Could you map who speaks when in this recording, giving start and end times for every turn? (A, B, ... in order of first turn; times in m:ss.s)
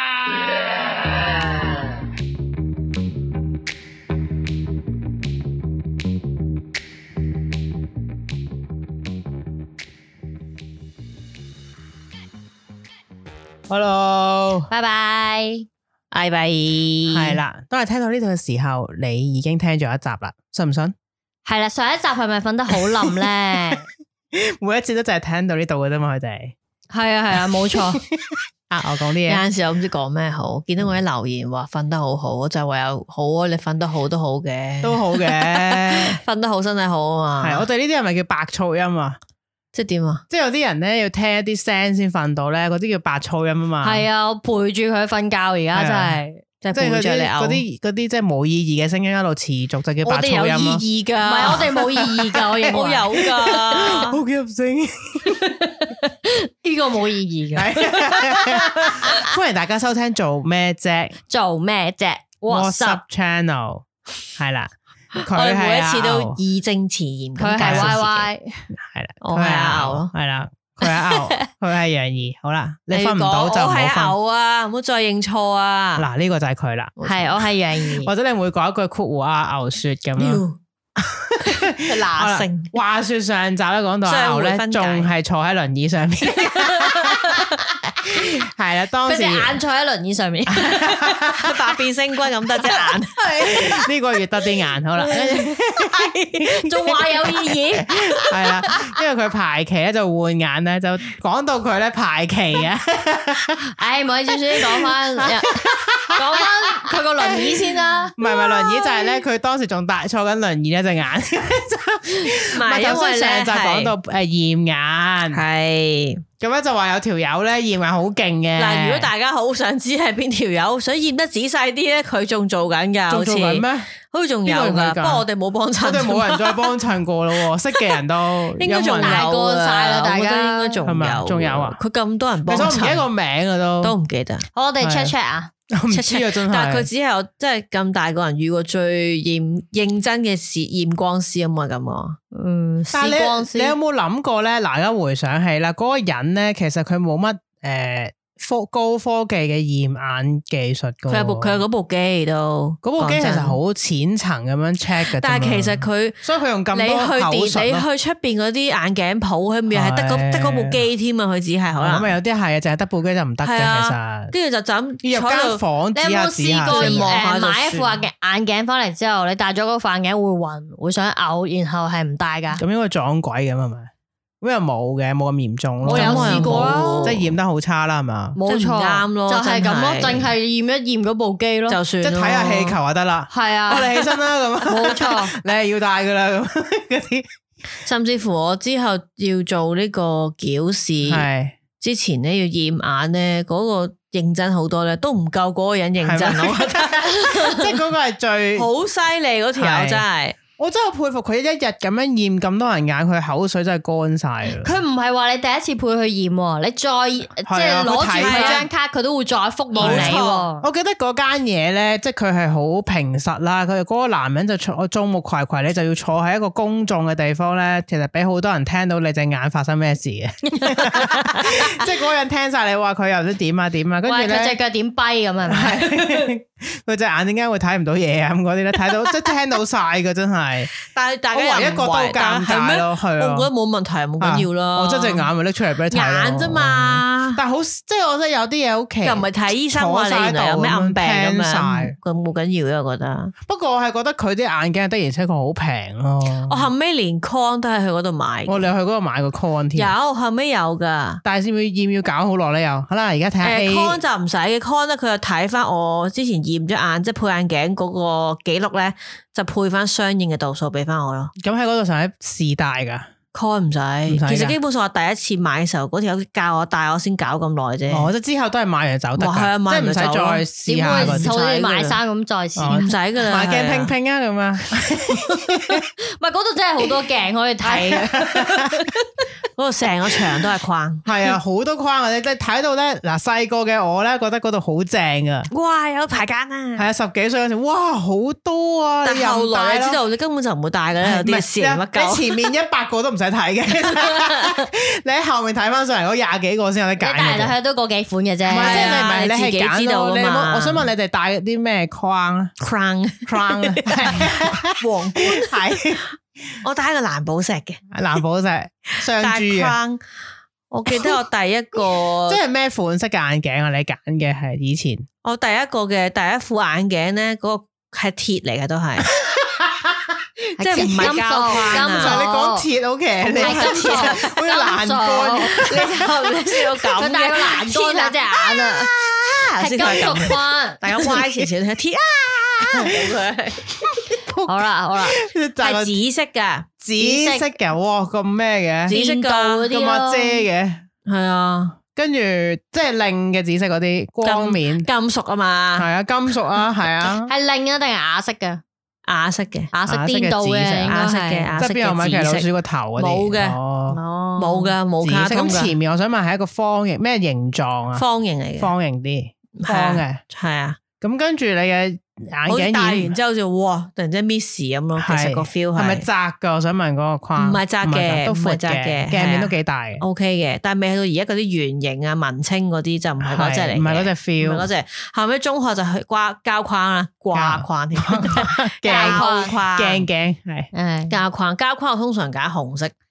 0:13.7-0:14.7 A
0:14.7-0:15.7 B
0:16.1-0:17.4 C
0:17.1-0:20.9 A
0:21.4-0:23.8 B
0:24.3-0:26.5 A
0:26.9-0:28.0 B
0:27.7-0:29.4 A
0:29.3-0:37.6 C
0:34.8-0:36.2 A
0:37.4-0:39.2 A
0:39.7-0:40.2 C
0:40.3-0:44.0 A
0:43.8-0:46.4 B
0:45.7-0:46.2 A
0:46.6-0:47.6 C
0:46.7-0:50.8 A
0:50.0-0:51.7 C
0:51.2-0:53.1 B
0:51.4-0:55.5 A
0:52.7-0:54.2 C
0:55.5-0:59.2 B
0:57.6-1:01.2 A
1:01.3-1:03.0 B
1:02.5-1:03.8 A
1:04.4-1:06.4 A
1:05.2-1:08.3 C
1:07.4-1:08.6 B
1:07.6-1:08.0 A
1:08.7-1:14.1 A
1:09.2-1:10.1 C
1:12.9-1:16.1 C
1:16.0-1:16.9 A
1:17.0-1:17.5 C
1:17.0-1:18.1 B
1:18.0-1:20.4 A
1:20.2-1:20.6 C
1:21.0-1:27.2 A
1:21.4-1:22.7 C
1:24.0-1:25.1 C
1:26.8-1:27.4 C
1:28.1-1:29.6 A
1:29.0-1:30.9 B
1:30.5-1:31.8 A
1:31.4-1:33.8 C
1:33.4-1:36.7 A
1:35.0-1:38.1 C
1:36.7-1:37.9 B
1:37.9-1:43.6 A
1:43.7-1:45.5 B
1:44.9-1:55.4 A
1:46.1-1:49.1 B
1:52.4-1:53.9 C
1:55.3-1:56.2 C
1:56.4-1:59.1 A
1:58.6-2:06.7 C
2:03.1-2:03.9 A
2:04.4-2:05.2 A
2:05.8-2:09.3 A
2:08.6-2:13.1 C
2:09.0-2:10.8 B
2:10.8-2:11.8 A
2:12.5-2:13.9 A
2:13.8-2:14.4 C
2:14.5-2:15.5 B
2:14.8-2:15.1 A
2:15.7-2:16.9 A
2:15.9-2:22.2 C
2:22.3-2:23.8 B
2:22.9-2:31.6 A
2:31.1-2:33.6 C
2:32.8-2:37.8 A
2:35.1-2:36.2 C
2:36.7-2:42.1 C
2:39.7-2:40.8 A
2:41.8-2:44.3 A
2:43.4-2:45.6 C
2:45.0-2:47.1 A
2:45.9-2:52.6 B
2:46.6-2:48.0 C
2:52.6-2:53.9 A
2:54.4-2:58.4 A
2:55.8-2:57.3 C
2:55.9-2:57.1 B
2:58.4-3:01.8 B
2:58.4-3:00.3 C
3:01.7-3:02.8 C
3:02.0-3:07.3 A
3:03.3-3:04.0 B
3:04.6-3:05.3 B
3:07.8-3:11.3 C
3:11.0-3:11.6 A
3:11.8-3:17.5 C
3:16.0-3:18.7 A
3:17.2-3:17.6 B
3:18.5-3:20.4 C
3:19.6-3:20.0 A
3:20.6-3:24.7 A
3:24.5-3:30.7 B
3:27.4-3:28.7 A
3:27.9-3:28.7 C
3:29.7-3:30.4 C
3:29.8-3:44.6 A
3:40.6-3:41.6 B
3:44.0-3:45.9 B
3:45.5-3:50.7 A
3:50.9-3:55.3 C
3:51.3-3:53.5 A
3:54.2-4:01.9 A
3:55.9-3:57.4 C
3:59.0-4:03.3 C
4:03.4-4:06.7 A
4:06.5-4:08.6 C
4:08.4-4:09.9 A
4:09.7-4:11.2 C
4:11.2-4:14.0 A
4:13.4-4:21.3 C
4:21.4-4:23.1 A
4:23.3-4:28.1 C
4:24.1-4:24.6 A
4:27.9-4:31.3 A
4:29.2-4:32.0 C
4:30.6-4:32.9 B
4:32.6-4:35.8 A
4:32.6-4:33.9 C
4:35.2-4:38.9 B
4:37.6-4:38.9 A
4:39.6-4:41.1 C
4:41.0-4:45.5 A
4:45.5-4:46.9 C
4:46.8-4:50.0 A
4:49.0-4:52.5 C
4:51.0-4:57.5 A
4:53.9-4:54.6 C
4:57.0-4:59.0 B
4:58.5-5:02.5 A
4:58.6-5:00.8 C
5:02.6-5:06.0 C
5:03.2-5:06.0 A
5:06.6-5:07.9 C
5:07.9-5:09.7 A
5:09.2-5:10.0 C
5:10.7-5:12.4 C
5:10.9-5:11.2 A
5:12.2-5:15.1 A
5:15.2-5:19.1 C
5:19.1-5:26.1 A
5:20.6-5:22.7 B
5:20.6-5:22.2 C
5:23.2-5:24.4 C
5:23.4-5:25.6 B
5:25.1-5:33.9 C
5:27.0-5:28.9 B
5:29.6-5:30.8 B
5:31.0-5:31.4 A
5:32.7-5:33.1 A
5:33.8-5:36.0 A
5:34.5-5:35.2 B
5:35.6-5:36.7 C
5:36.8-5:38.9 A
5:37.0-5:37.5 B
5:38.9-5:39.7 C
5:38.9-5:40.4 B
5:39.7-5:40.8 A
5:41.0-5:41.8 C
5:41.9-5:44.9 A
5:44.2-5:45.9 C
5:45.8-5:47.3 A
5:47.3-5:48.6 B
5:49.0-5:49.7 C
5:49.7-5:51.5 B
5:49.9-5:54.0 A
5:50.9-5:53.6 C
5:53.9-5:54.7 B
5:54.4-5:55.7 C
5:55.0-5:58.0 A
5:58.0-5:58.7 C
5:58.6-6:00.2 A
5:59.5-6:00.8 C
6:01.0-6:03.1 A
6:02.5-6:06.0 C
6:05.0-6:10.0 A
6:07.4-6:20.1 C
6:13.2-6:14.7 A
6:17.3-6:20.7 A
6:18.9-6:19.6 B
6:20.7-6:21.1 B
6:21.1-6:22.9 C